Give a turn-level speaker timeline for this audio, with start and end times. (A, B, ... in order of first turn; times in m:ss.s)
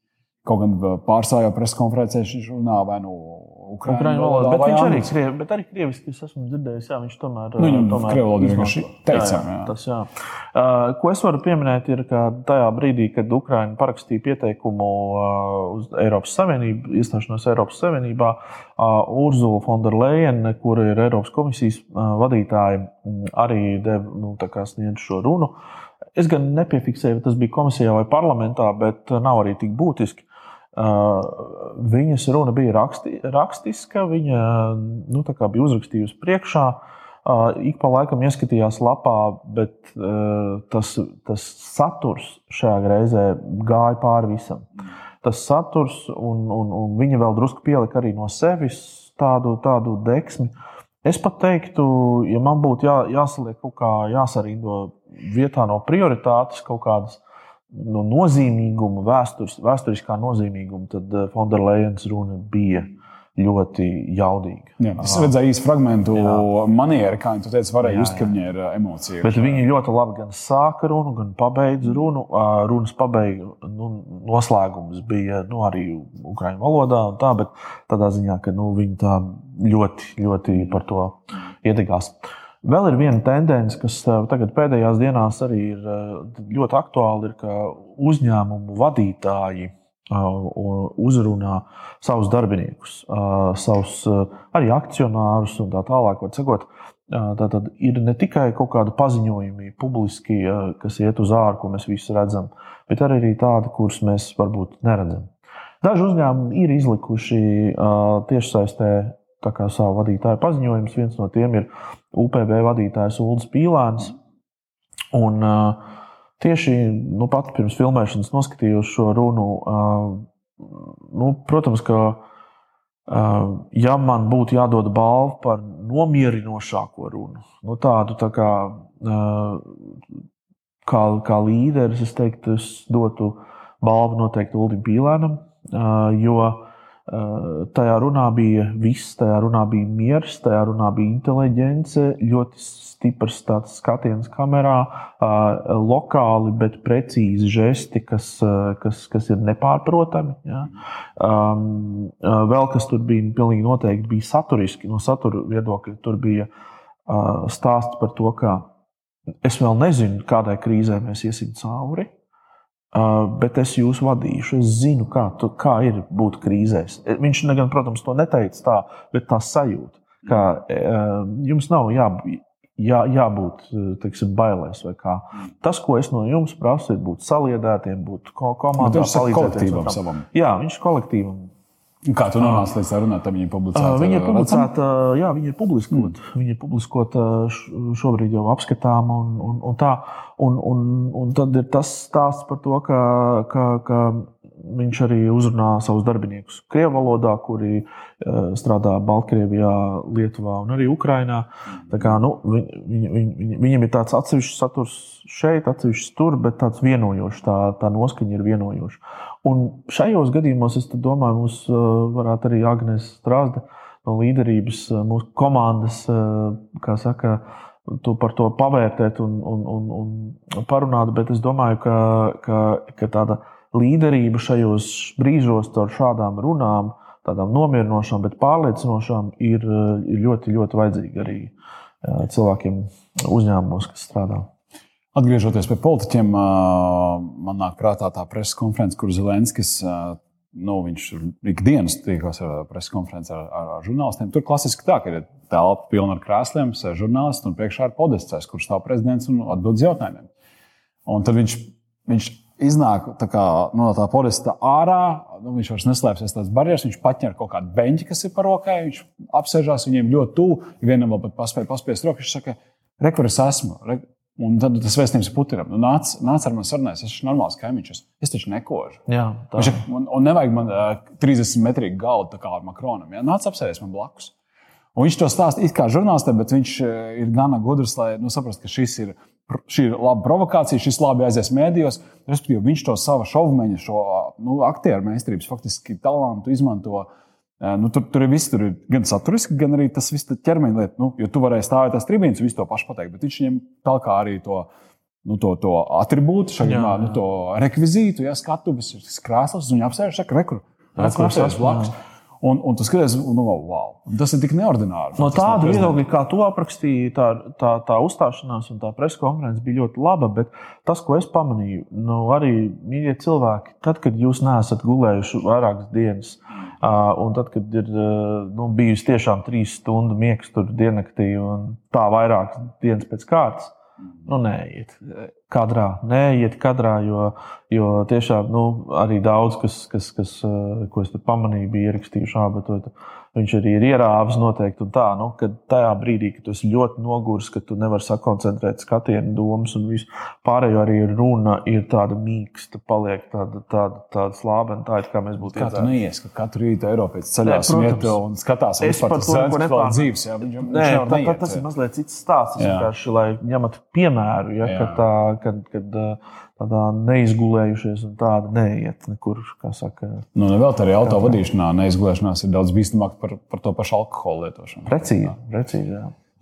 0:00.4-0:05.1 A
0:03.8-0:25.6 B
0:07.6-0:09.7 A
0:26.1-0:44.7 B
0:45.2-1:05.4 B
1:04.8-1:09.6 A
1:06.1-1:06.4 B
1:07.8-1:08.4 B
1:09.2-1:45.3 B
1:45.8-1:54.2 B
1:55.1-1:55.8 B
1:56.4-2:02.2 B
2:03.1-2:10.0 B
2:10.8-2:36.5 B
2:37.1-2:38.6 B
2:39.4-2:42.1 B
2:42.9-3:01.5 B
2:58.8-3:00.2 A
3:02.0-3:04.7 A
3:02.4-3:02.6 B
3:03.7-3:54.5 B
3:55.1-4:10.3 A
4:11.0-4:29.0 A
4:29.1-4:29.8 B
4:29.6-4:34.3 A
4:34.9-4:47.1 A
4:47.6-4:54.7 A
4:55.2-5:06.0 A
4:56.6-4:57.2 B
5:01.0-5:01.9 B
5:05.2-5:45.9 B
5:45.4-5:51.6 A
5:47.4-5:48.2 B
5:48.8-6:00.3 B
5:52.6-5:52.9 A
5:54.6-5:55.0 A
6:00.4-6:05.0 A
6:01.0-6:01.4 B
6:04.9-6:06.1 B